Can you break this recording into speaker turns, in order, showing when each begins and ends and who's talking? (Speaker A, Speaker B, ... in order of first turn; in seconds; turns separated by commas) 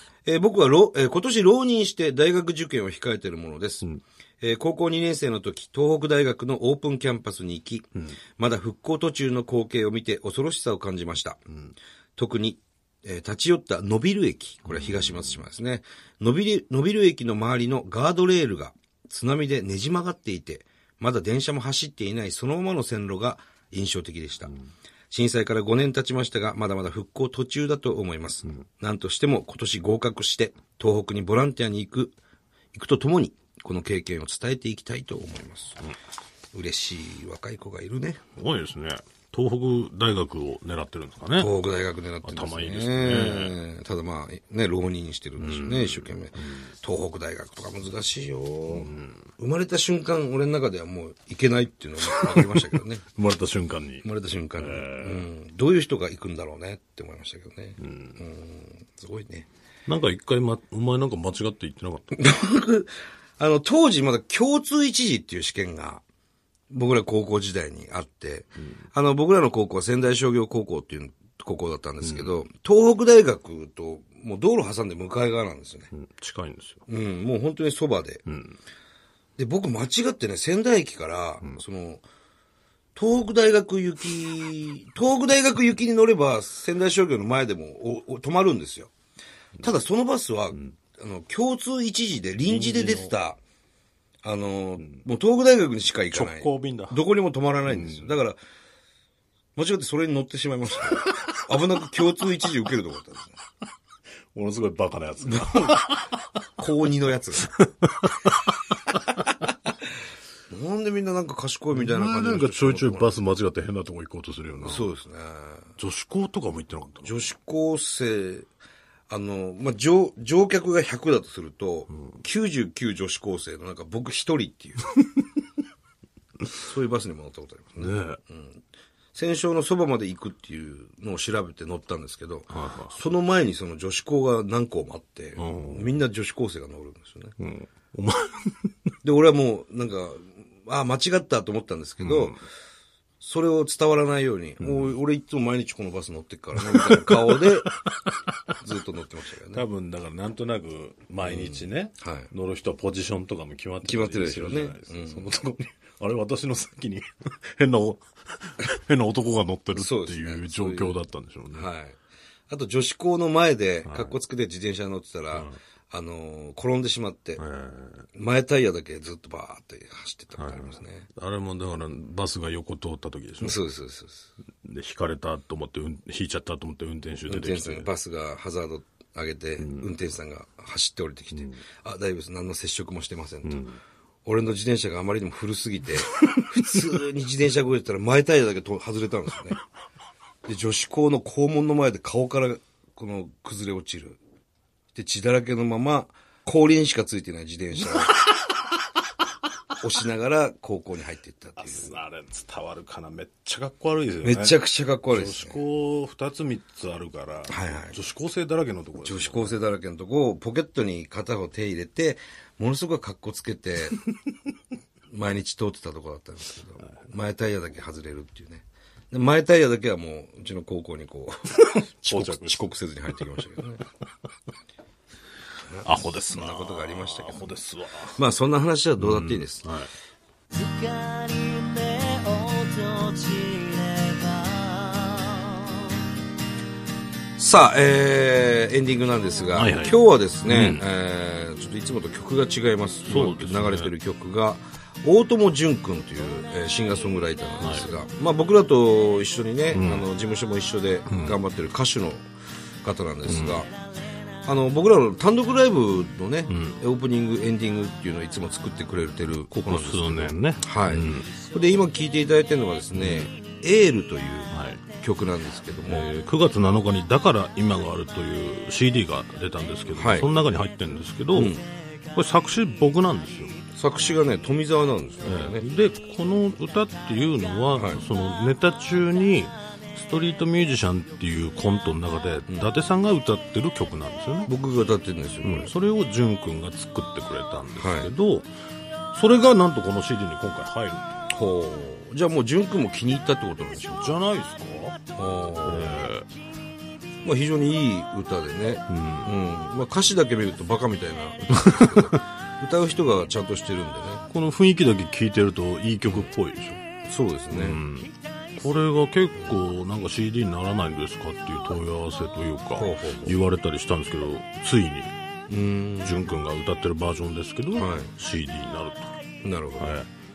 Speaker A: 0.2-3.8, Speaker A: 4.4-11.4, Speaker A: 12.2-24.5, Speaker B: 14.7-15.2, Speaker A: 25.1-32.1, Speaker A: 32.7-35.8, Speaker A: 36.5-38.2, Speaker B: 38.4-41.5, Speaker A: 41.4-53.0, Speaker B: 42.2-43.6, Speaker B: 45.4-46.7, Speaker B: 48.7-49.2, Speaker B: 52.1-54.0, Speaker A: 54.0-59.5, Speaker B: 54.6-55.2, Speaker B: 57.8-58.2, Speaker B: 59.9-62.1, Speaker A: 62.1-66.0, Speaker A: 66.7-75.9, Speaker B: 72.0-72.3, Speaker B: 75.9-76.8, Speaker A: 76.9-78.2, Speaker B: 78.2-78.6, Speaker A: 79.4-82.0, Speaker A: 82.9-88.9, Speaker A: 89.6-93.4, Speaker B: 92.5-93.1, Speaker A: 94.2-98.4, Speaker B: 96.1-97.0, Speaker B: 97.7-98.1, Speaker A: 99.5-103.4, Speaker B: 104.3-106.4, Speaker A: 105.2-105.9, Speaker A: 106.6-107.5, Speaker B: 107.4-109.0, Speaker A: 110.5-113.1, Speaker B: 111.7-114.8, Speaker A: 114.6-115.7, Speaker B: 115.8-117.0, Speaker A: 117.0-118.5, Speaker A: 119.1-124.8, Speaker A: 126.5-128.6, Speaker B: 127.8-128.2, Speaker A: 129.1-137.3, Speaker B: 132.5-133.0, Speaker B: 135.4-135.9, Speaker B: 137.4-138.7, Speaker A: 139.0-142.3, Speaker B: 142.0-142.4, Speaker A: 143.2-147.7, Speaker B: 144.6-144.9, Speaker B: 146.6-148.1, Speaker A: 148.5-149.6, Speaker B: 149.5-161.7, Speaker A: 151.2-152.3, Speaker A: 153.8-155.3, Speaker A: 159.7-161.0, Speaker A: 161.5-167.4, Speaker B: 163.8-164.2, Speaker B: 167.4-168.1, Speaker A: 168.1-171.1, Speaker B: 170.4-173.6, Speaker A: 173.4-174.3, Speaker B: 174.6-177.9, Speaker A: 177.3-183.6, Speaker B: 179.6-179.9, Speaker B: 181.3-181.6, Speaker B: 183.4-183.8, Speaker A: 184.2-189.6, Speaker A: 190.4-194.2, Speaker A: 194.9-198.2, Speaker B: 197.9-198.4, Speaker A: 199.8-201.9, Speaker B: 201.6-209.6, Speaker A: 204.2-205.6, Speaker A: 207.5-207.9, Speaker A: 209.0-214.0, Speaker A: 215.1-223.8, Speaker B: 222.0-223.4, Speaker A: 225.7-227.4, Speaker B: 225.8-228.2, Speaker A: 228.2-229.6, Speaker B: 229.0-229.9, Speaker C: 230.5-236.0, Speaker A: 237.4-252.2, Speaker B: 239.5-240.8, Speaker B: 243.1-243.9, Speaker B: 249.7-250.1, Speaker B: 251.1-251.3, Speaker A: 252.8-253.7, Speaker B: 253.3-253.6, Speaker A: 254.4-266.1, Speaker B: 256.5-256.8, Speaker B: 259.5-261.3, Speaker B: 262.9-263.3, Speaker B: 264.5-264.8, Speaker B: 265.9-271.5, Speaker A: 269.9-270.3, Speaker A: 271.3-271.6, Speaker B: 272.1-273.6, Speaker A: 273.7-275.6, Speaker B: 275.2-284.5, Speaker A: 277.7-278.0, Speaker A: 284.5-285.7, Speaker B: 285.4-288.5, Speaker A: 287.8-288.1, Speaker B: 289.1-291.1, Speaker A: 291.3-294.1, Speaker B: 293.8-295.0, Speaker A: 295.1-296.1, Speaker B: 295.6-296.3, Speaker A: 297.2-304.3, Speaker B: 298.9-299.3, Speaker B: 301.5-302.2, Speaker B: 304.3-306.8, Speaker A: 307.1-307.8, Speaker B: 307.5-315.1, Speaker A: 312.8-313.4, Speaker A: 315.5-316.3, Speaker B: 316.0-319.1, Speaker A: 317.7-318.1, Speaker A: 319.4-320.0, Speaker B: 319.8-320.1